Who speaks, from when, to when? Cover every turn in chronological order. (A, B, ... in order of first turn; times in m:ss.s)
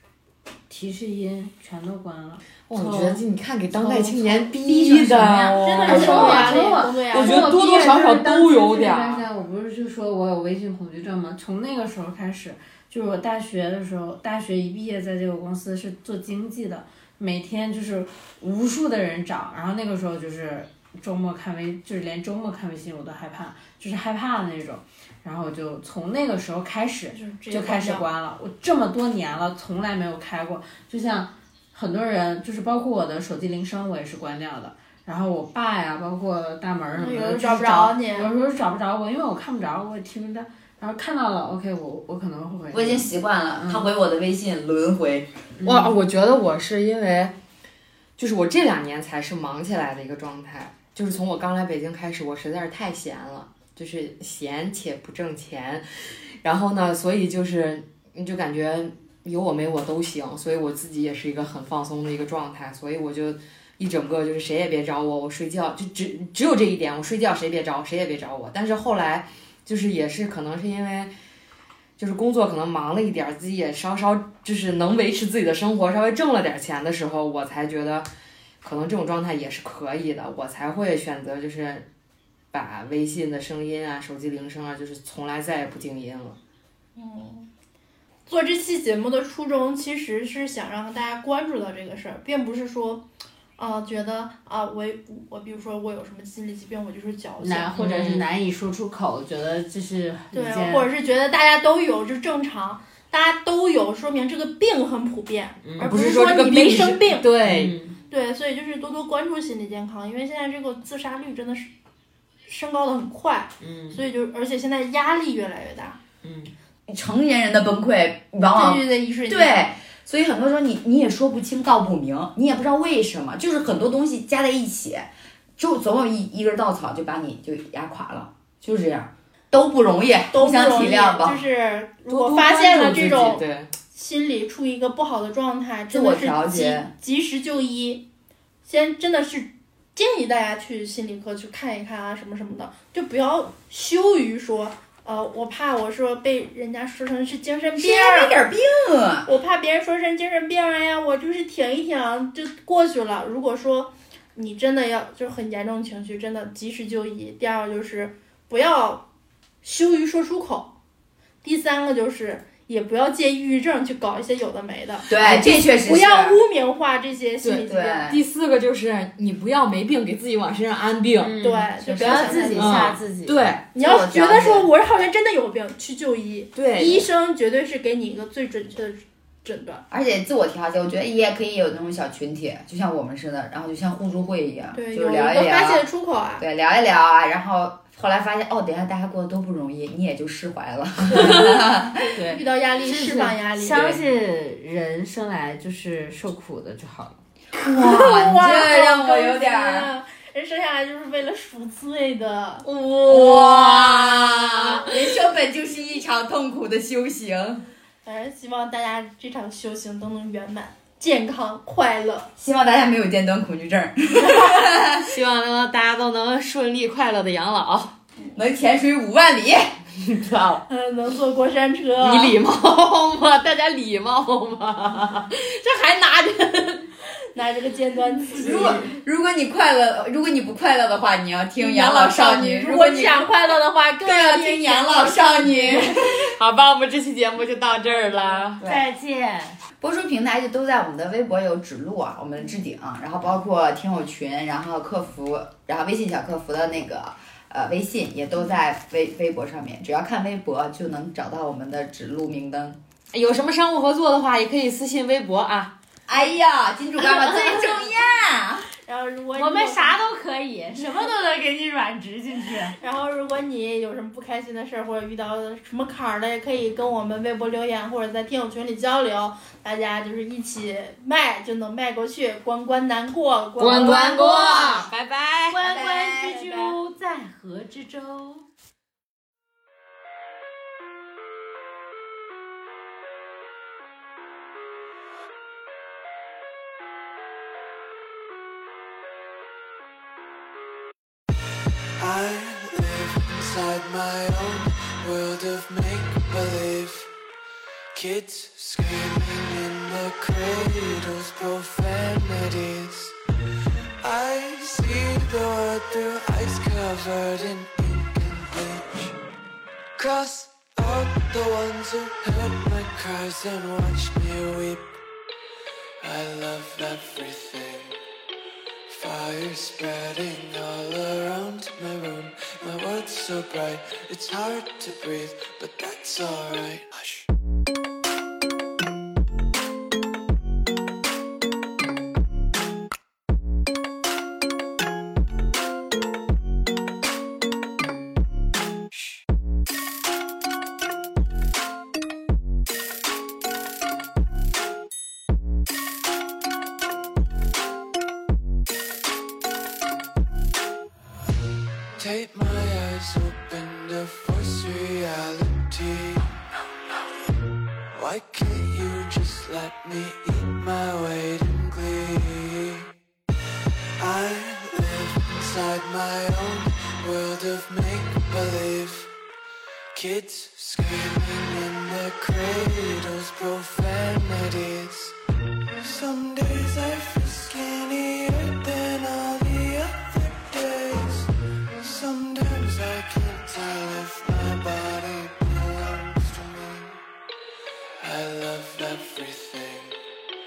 0:00.7-0:03.2 A
0:02.7-0:09.2 B
0:03.7-0:43.9 A
0:04.6-0:05.6 C
0:05.6-0:08.0 D
0:27.1-0:28.1 D
0:36.9-0:38.3 D
0:42.7-0:45.3 C
0:45.6-0:45.9 A
0:45.6-0:47.3 B
0:48.2-0:55.8 B
0:56.4-1:11.1 B
1:12.0-1:18.1 B
1:18.6-1:21.9 B
1:22.5-1:26.4 B
1:27.0-1:27.5 D
1:28.3-1:33.0 D
1:33.6-1:38.0 D
1:37.4-1:40.9 A
1:37.8-1:38.2 B
1:40.3-1:47.3 D
1:45.6-1:45.9 A
1:45.8-1:47.8 B
1:47.4-1:48.0 A
1:48.1-1:51.7 D
1:52.5-1:56.0 D
1:53.6-1:54.0 A
1:56.2-1:56.5 A
1:56.9-2:11.4 C
1:58.4-1:59.7 D
2:10.3-2:18.0 D
2:12.1-2:13.7 B
2:15.9-2:16.9 C
2:18.6-2:28.4 D
2:27.8-2:29.3 C
2:29.2-2:39.0 D
2:39.6-2:40.7 D
2:41.4-2:48.1 D
2:45.1-2:46.4 C
2:47.4-2:51.4 B
2:47.7-2:48.2 C
2:51.2-2:53.5 A
2:51.4-2:52.8 D
2:51.8-2:52.8 C
2:52.6-2:53.7 B
2:53.7-2:59.8 D
2:53.8-2:54.7 C
2:56.5-2:57.1 B
2:59.9-3:05.8 C
3:04.7-3:06.4 D
3:06.4-3:12.1 C
3:11.1-3:11.5 A
3:12.2-3:17.2 A
3:12.3-3:14.0 D
3:17.5-3:19.9 C
3:17.6-3:22.6 D
3:22.6-3:25.1 B
3:23.0-3:27.7 C
3:28.0-3:32.3 D
3:32.4-3:35.1 C
3:35.0-3:38.0 B
3:38.3-3:39.8 C
3:40.0-3:40.6 B
3:40.7-3:42.4 D
3:42.0-3:46.9 B
3:47.3-3:48.9 D
3:48.4-3:53.3 C
3:51.6-3:55.9 D
3:54.0-3:56.2 C
3:56.0-3:58.6 B
3:58.6-3:58.8 C
3:58.6-3:59.6 A
3:59.8-4:12.8 C
4:13.1-4:15.7 B
4:16.1-4:18.7 C
4:17.0-4:17.9 D
4:18.7-4:20.0 D
4:19.3-4:22.8 A
4:22.7-4:34.2 D
4:33.6-4:35.6 B
4:33.8-4:34.7 A
4:34.1-4:34.9 C
4:35.5-4:38.4 A
4:35.6-4:36.7 C
4:52.0-4:57.1 E
4:57.9-5:03.1 E
5:04.0-5:09.2 E
5:10.0-5:15.0 E
5:16.0-5:18.0 E
5:18.9-5:27.3 E
5:52.0-5:57.0 E
5:57.9-6:02.9 E
6:04.0-6:09.1 E
6:09.9-6:15.1 E
6:15.8-6:27.0 E
6:28.0-6:30.0 E